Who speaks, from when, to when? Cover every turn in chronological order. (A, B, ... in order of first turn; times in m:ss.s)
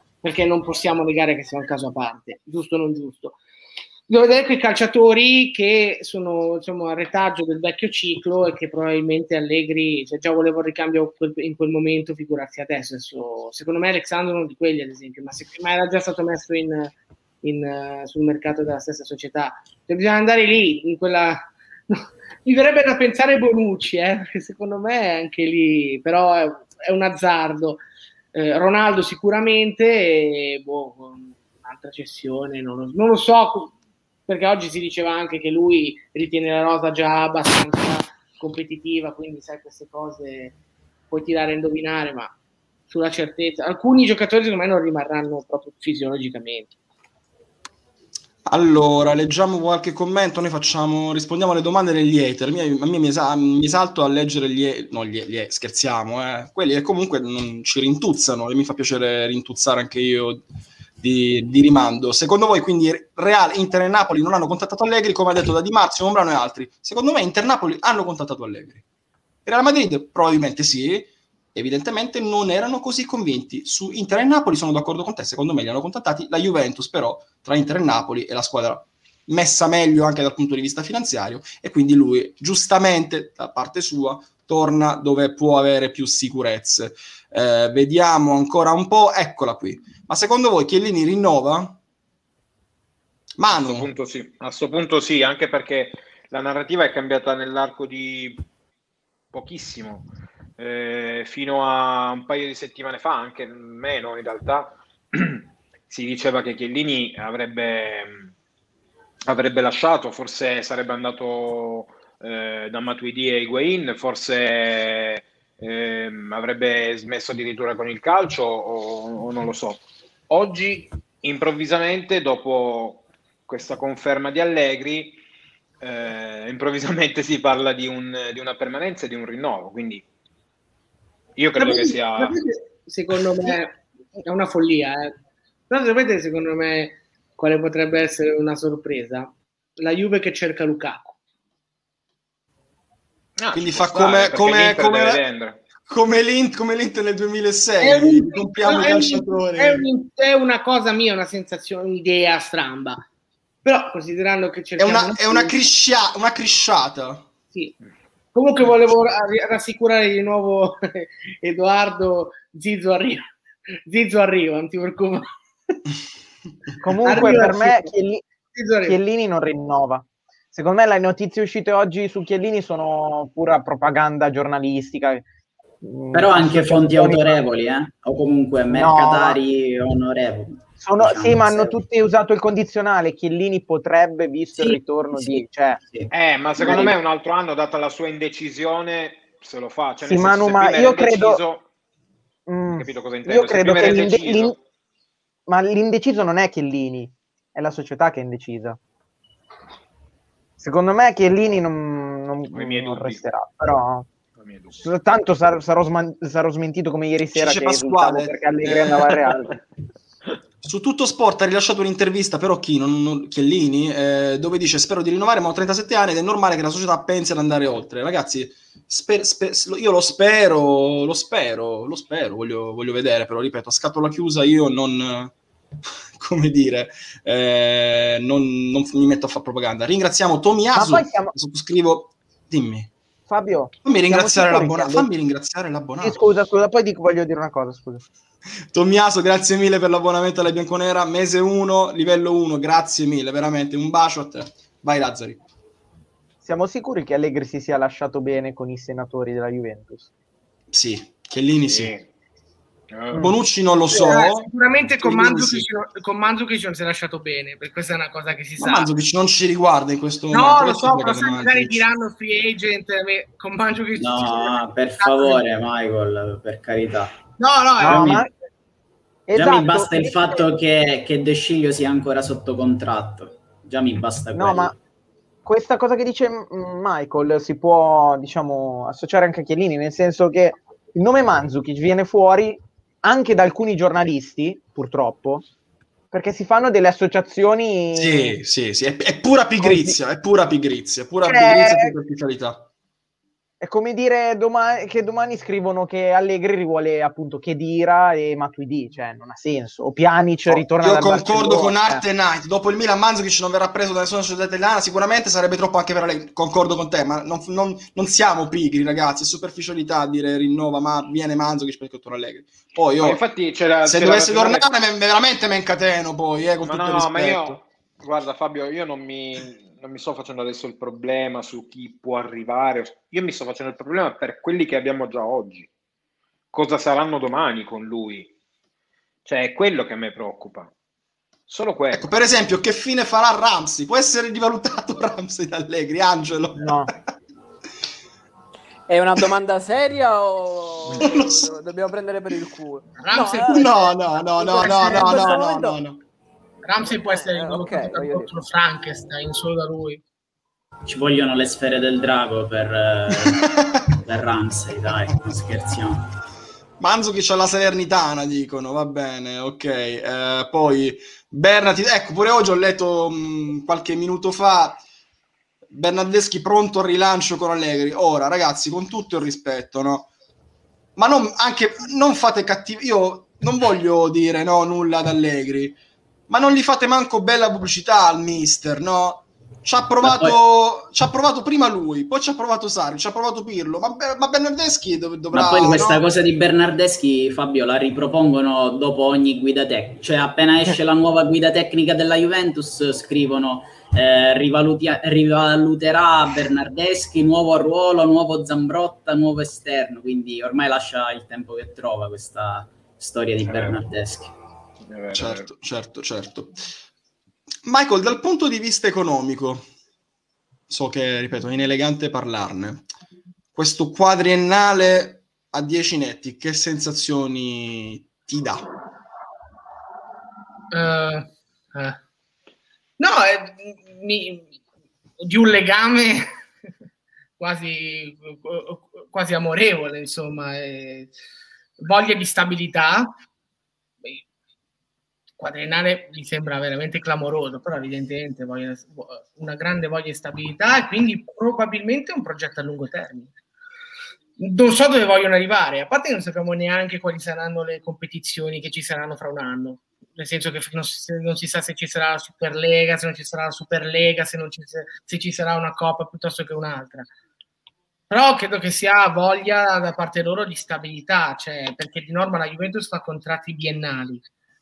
0:00.2-0:03.4 A
0:04.1-0:27.8 A
0:28.3-0:33.7 A
0:34.3-0:40.5 A
0:41.1-0:42.3 A
0:42.9-0:46.7 A
0:48.4-1:00.4 B
1:01.0-1:08.8 B
1:09.4-1:31.8 B
1:33.4-1:33.9 B
1:33.5-1:38.4 C
1:39.3-1:40.1 C
1:40.6-1:48.3 C
1:49.2-2:05.2 C
2:05.8-2:10.0 C
2:11.4-2:12.4 C
2:11.6-2:15.2 A
2:15.7-2:21.2 A
2:23.4-2:25.6 C
2:23.5-2:25.2 B
2:25.8-2:29.9 B
2:27.8-2:33.0 A
2:33.6-2:35.6 A
2:34.8-2:37.3 B
2:38.3-2:43.3 A
2:43.8-2:45.7 A
2:46.8-2:48.2 D
2:47.0-2:47.9 A
2:48.5-2:49.0 A
2:48.8-2:55.2 D
2:55.8-2:57.4 D
2:56.1-3:01.7 E
2:58.7-2:59.4 D
3:00.8-3:05.8 D
3:06.1-3:11.6 C
3:06.6-3:06.9 D
3:10.0-3:11.4 D
3:12.5-3:14.5 D
3:12.8-3:14.6 C
3:15.5-3:18.8 D
3:20.6-3:24.1 D
3:22.5-3:23.2 C
3:24.4-3:24.9 C
3:24.8-3:29.6 D
3:27.3-3:29.3 B
3:30.6-3:45.3 B
3:46.2-3:52.9 B
3:50.7-3:51.3 D
3:53.3-3:55.1 D
3:53.8-3:56.2 B
3:56.0-3:58.1 D
3:58.7-4:05.4 B
4:06.4-4:10.1 D
4:10.7-4:11.9 B
4:11.6-4:12.0 C
4:12.9-4:13.3 C
4:13.2-4:15.7 B
4:13.9-4:18.9 A
4:18.6-4:21.8 B
4:20.3-4:25.4 A
4:24.0-4:27.2 E
4:27.4-4:28.3 A
4:27.8-4:28.3 D
4:27.8-4:28.2 E
4:29.3-4:30.4 D
4:29.3-4:34.7 E
4:34.3-4:34.7 D
4:35.4-4:45.4 D
4:46.1-4:48.4 D
4:48.0-4:52.7 B
4:49.6-4:50.0 D
4:51.2-4:51.9 D
4:53.6-5:02.0 D
5:00.5-5:13.2 B
5:13.0-5:14.7 C
5:13.8-5:17.6 B
5:16.6-5:25.7 C
5:26.5-5:28.3 C
5:29.2-5:30.7 C
5:31.5-5:32.0 C
5:31.9-5:36.8 B
5:36.6-5:36.9 D
5:38.9-5:43.7 F
5:40.9-5:41.5 B
5:43.0-5:43.9 A
5:43.5-5:46.0 B
5:44.4-5:45.7 F
5:44.5-5:45.5 A
5:45.0-5:45.7 D
5:46.6-5:50.0 A
5:46.9-5:48.3 F
5:50.9-5:53.4 E
5:53.2-5:53.8 B
5:54.0-5:56.0 E
5:56.8-6:04.8 B
6:05.7-6:10.1 B
6:11.0-6:26.0 B
6:20.0-6:20.4 E
6:25.3-6:44.3 E
6:43.4-6:43.8 C
6:44.9-6:45.5 C
6:45.1-6:46.5 B
6:47.6-6:49.7 B
6:50.7-6:52.8 B
6:53.5-6:58.6 B
7:00.7-7:02.0 A
7:03.0-7:04.5 A
7:05.2-7:06.2 A
7:07.4-7:11.1 A
7:11.8-7:13.1 A
7:15.4-7:23.3 A
7:24.4-7:37.1 A
7:38.1-7:44.2 A